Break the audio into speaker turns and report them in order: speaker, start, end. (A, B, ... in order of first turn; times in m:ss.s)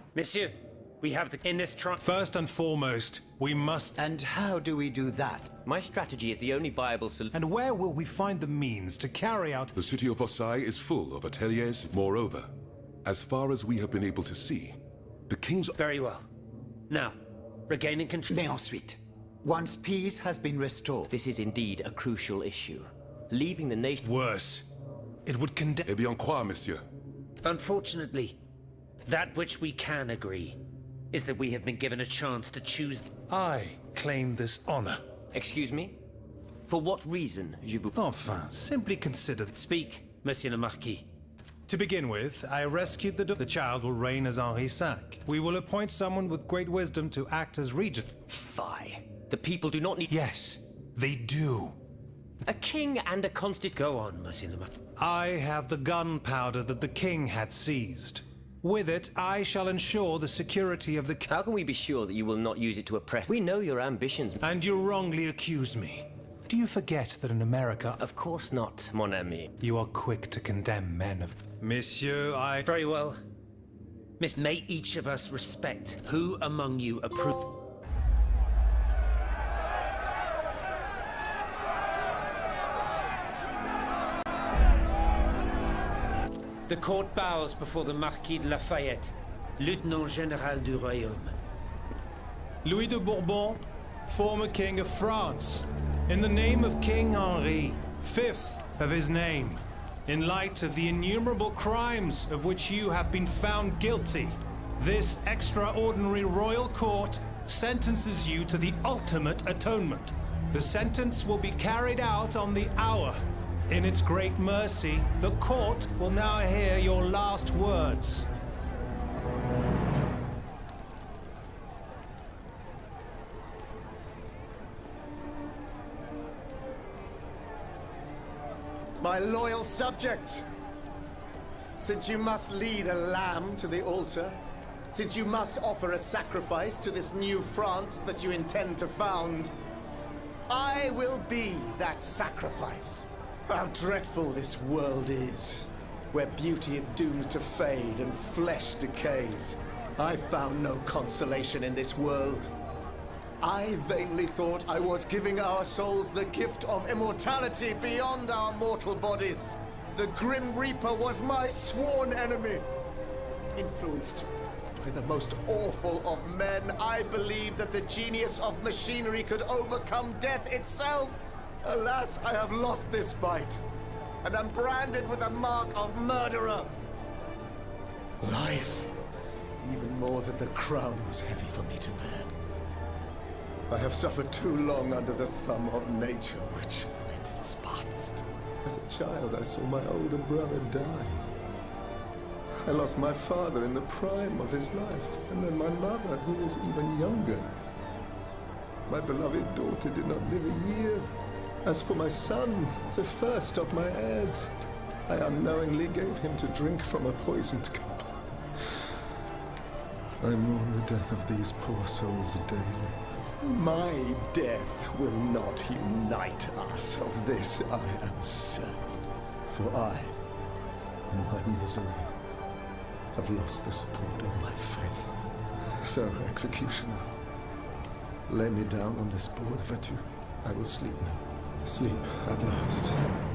0:00.1-0:02.0 A
0:02.0-0:04.0 B
0:04.0-0:05.5 C
0:05.5-0:07.3 D
0:07.3-0:09.7 B
0:09.7-0:12.5 E
0:13.0-0:14.8 E
0:15.3-0:15.8 E
0:15.8-0:16.2 A
0:16.9-0:17.1 A
0:17.7-0:18.4 A
0:18.3-0:21.0 C
0:21.1-0:24.0 D
0:24.0-0:24.7 B
0:25.2-0:25.9 B
0:25.8-0:26.8 E
0:27.4-0:28.4 A
0:29.0-0:30.6 A
0:31.1-0:33.1 A
0:33.3-0:35.0 B
0:35.3-0:36.0 D
0:36.7-0:37.9 D
0:37.9-0:39.5 B
0:39.5-0:41.1 A
0:41.7-0:48.1 B
0:48.3-0:50.1 D
0:50.1-0:51.7 B
0:52.4-0:53.8 D
0:53.7-0:54.7 A
0:55.0-1:01.3 B
1:01.3-1:04.4 D
1:04.4-1:08.0 B
1:08.0-1:09.5 D
1:09.6-1:12.6 B
1:12.6-1:13.2 A
1:14.2-1:17.5 A
1:26.7-1:31.3 A
1:32.6-1:58.3 B
2:09.0-2:10.4 F
2:11.8-2:14.4 F
2:14.9-2:19.5 F
2:20.5-2:32.5 F
2:33.4-2:42.6 F
2:43.5-2:44.3 F
2:44.8-2:53.6 F
2:54.2-2:56.7 F
2:58.2-2:59.0 F
2:59.6-3:02.3 F
3:03.7-3:11.3 F
3:12.6-3:17.5 F
3:18.9-3:21.1 F
3:21.6-3:24.5 F
3:25.1-3:28.1 F
3:30.2-3:38.8 F
3:39.5-3:40.2 F
3:41.1-3:42.1 F
3:43.1-3:45.1 F
3:45.8-3:47.1 F
3:48.3-3:53.0 F